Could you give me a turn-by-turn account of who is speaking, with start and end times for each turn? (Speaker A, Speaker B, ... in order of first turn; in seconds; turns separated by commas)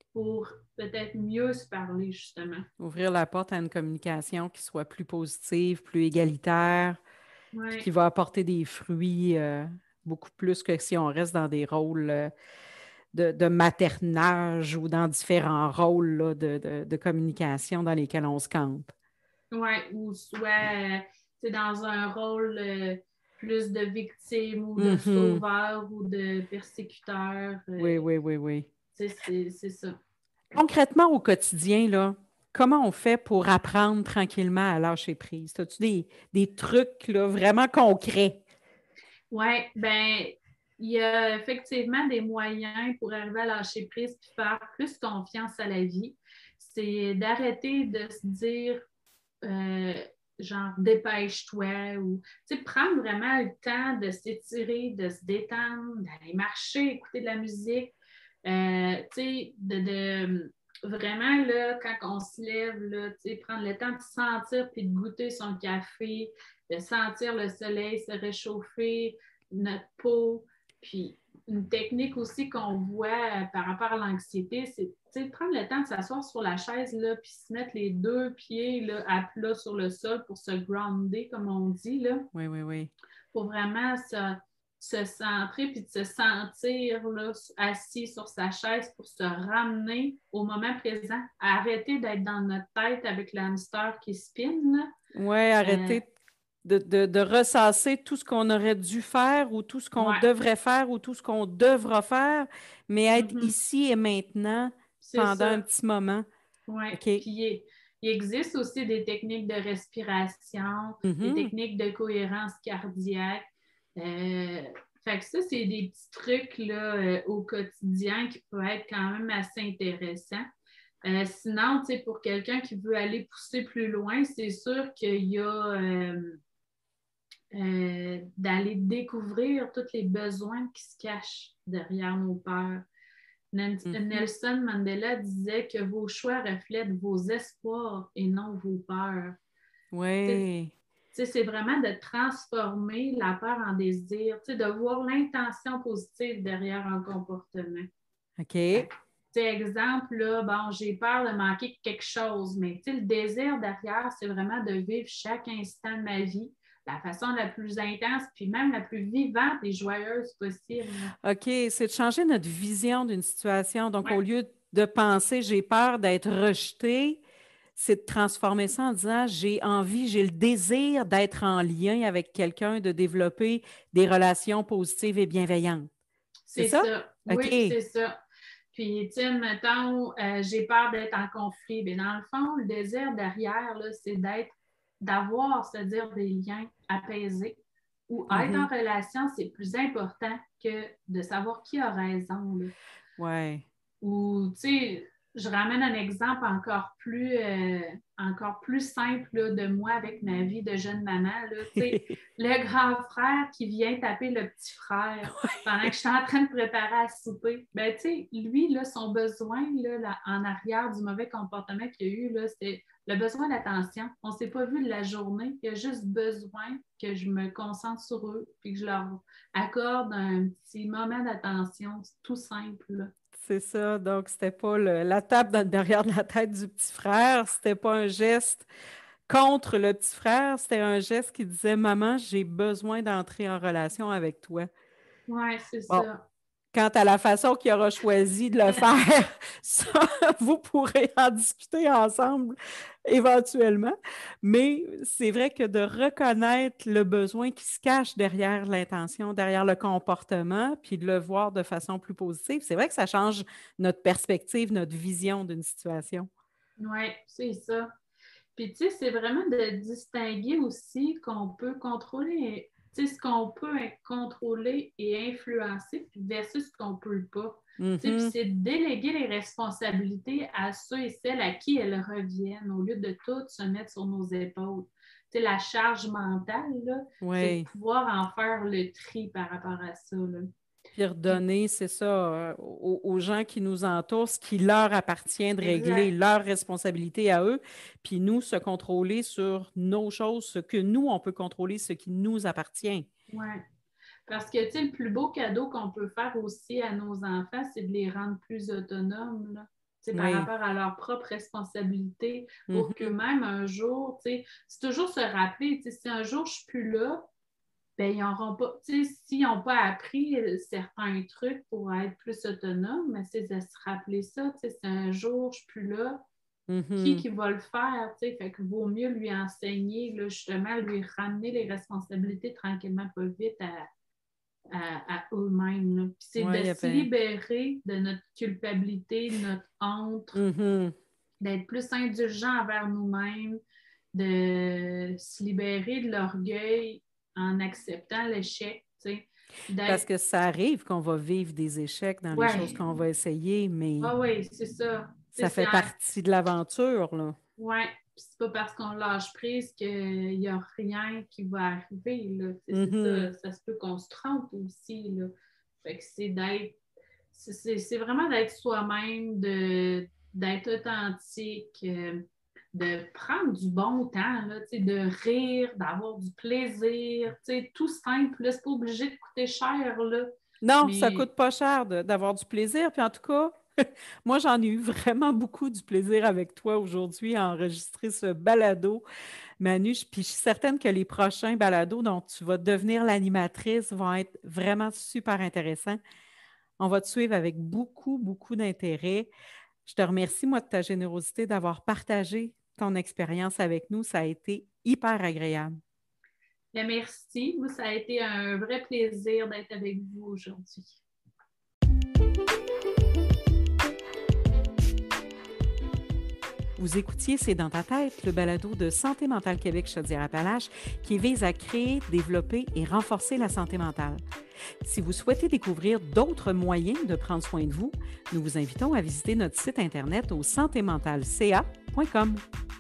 Speaker A: 0.1-2.7, Speaker B: 2.8-7.0, Speaker A: 7.5-7.9, Speaker B: 7.8-12.3, Speaker B: 13.1-18.9, Speaker A: 19.5-28.1, Speaker B: 24.8-25.4, Speaker B: 27.8-28.7, Speaker A: 28.9-29.9, Speaker B: 30.5-38.4, Speaker A: 39.3-48.8, Speaker A: 49.4-82.3, Speaker B: 82.3-82.9, Speaker A: 83.3-94.9, Speaker B: 95.1-96.0, Speaker A: 95.6-96.0, Speaker B: 96.6-106.3, Speaker A: 100.0-100.3, Speaker A: 103.2-103.5, Speaker A: 105.0-105.6, Speaker A: 106.7-120.5, Speaker B: 106.9-107.2, Speaker B: 111.0-111.5, Speaker A: 121.0-126.4, Speaker A: 127.5-132.8, Speaker A: 133.5-139.4, Speaker B: 133.9-134.2, Speaker B: 139.9-140.7, Speaker A: 141.1-147.9, Speaker B: 148.4-148.9, Speaker A: 148.7-161.1, Speaker B: 161.2-167.2, Speaker B: 167.8-175.9, Speaker A: 176.5-178.2, Speaker B: 176.6-177.8, Speaker A: 178.7-192.7, Speaker B: 188.3-188.7, Speaker B: 193.2-193.7, Speaker A: 194.0-223.1, Speaker B: 201.8-202.0, Speaker B: 223.3-228.7, Speaker B: 229.3-234.7, Speaker A: 235.3-236.2, Speaker B: 236.7-242.6, Speaker B: 243.1-256.3, Speaker A: 256.8-257.9, Speaker A: 258.6-280.5, Speaker B: 267.8-268.4, Speaker B: 277.2-277.7, Speaker B: 281.0-293.1, Speaker A: 285.6-286.1, Speaker A: 293.3-293.6, Speaker A: 294.3-307.2, Speaker B: 300.1-300.5, Speaker B: 302.7-303.1, Speaker A: 308.0-316.2, Speaker B: 316.7-317.2, Speaker A: 317.0-323.9, Speaker A: 324.7-330.4, Speaker B: 326.4-327.1, Speaker B: 330.4-330.9, Speaker A: 331.4-333.6, Speaker A: 334.1-340.1, Speaker B: 339.9-344.1, Speaker A: 342.3-342.8, Speaker A: 344.0-345.9, Speaker B: 345.3-347.4, Speaker A: 347.6-355.3, Speaker B: 352.7-353.3, Speaker A: 355.8-356.8, Speaker A: 357.3-371.3, Speaker B: 370.6-373.5, Speaker B: 374.2-379.0, Speaker B: 379.6-386.0, Speaker B: 386.8-389.3, Speaker B: 389.9-395.7, Speaker A: 396.7-401.0, Speaker B: 406.8-414.2, Speaker B: 414.8-422.4